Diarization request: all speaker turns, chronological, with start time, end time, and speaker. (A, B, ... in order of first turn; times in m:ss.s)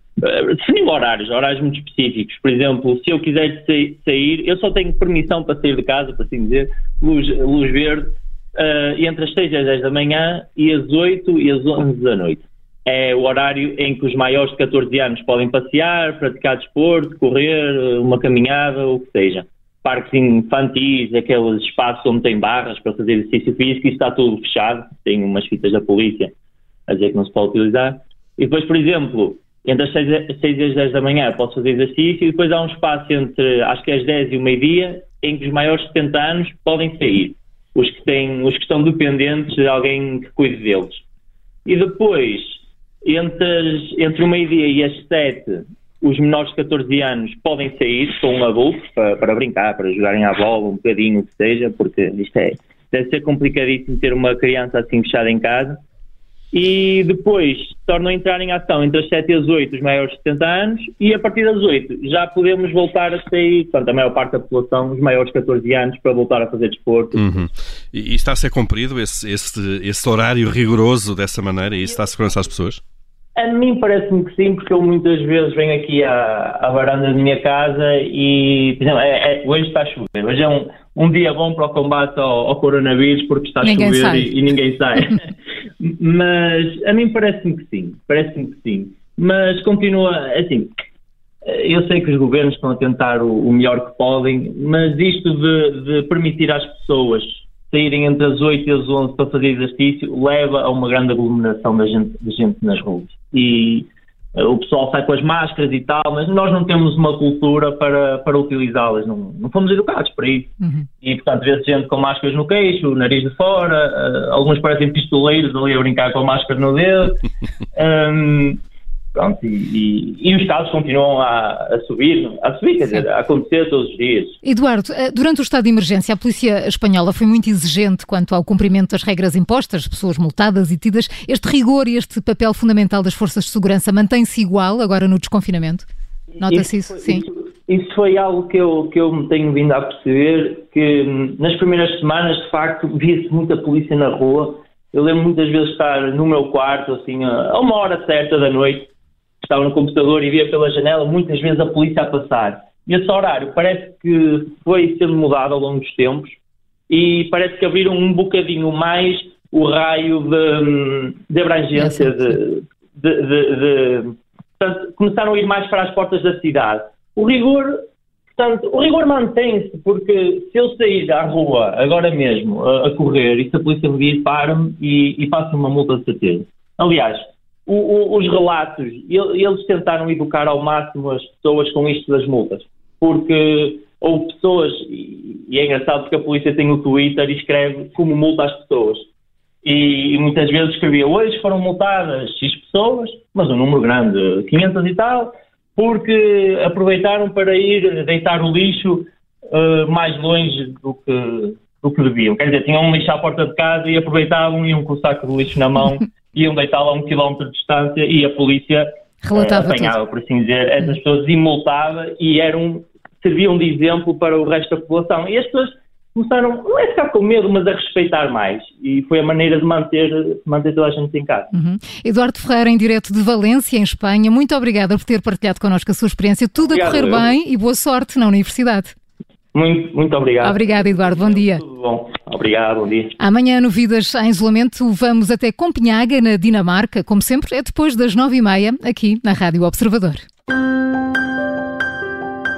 0:00.2-0:26.3 A
0:26.9-0:41.0 A
0:41.7-0:55.8 A
0:56.5-1:07.5 A
1:07.2-1:12.8 B
1:13.4-1:30.7 A
1:23.6-1:24.3 C
1:31.4-1:57.2 A
1:50.6-1:50.9 C
1:57.8-1:58.6 A
1:59.2-2:04.4 A
2:04.4-2:15.9 C
2:16.4-2:36.4 A
2:16.4-2:17.2 C
2:36.9-2:47.8 A
2:41.8-2:42.3 C
2:48.4-3:09.1 A
3:09.6-3:41.5 A
3:29.2-3:29.9 C
3:41.5-3:48.9 C
3:46.6-3:47.3 A
3:49.5-3:53.2 A
3:50.4-3:51.6 C
3:53.2-4:00.2 C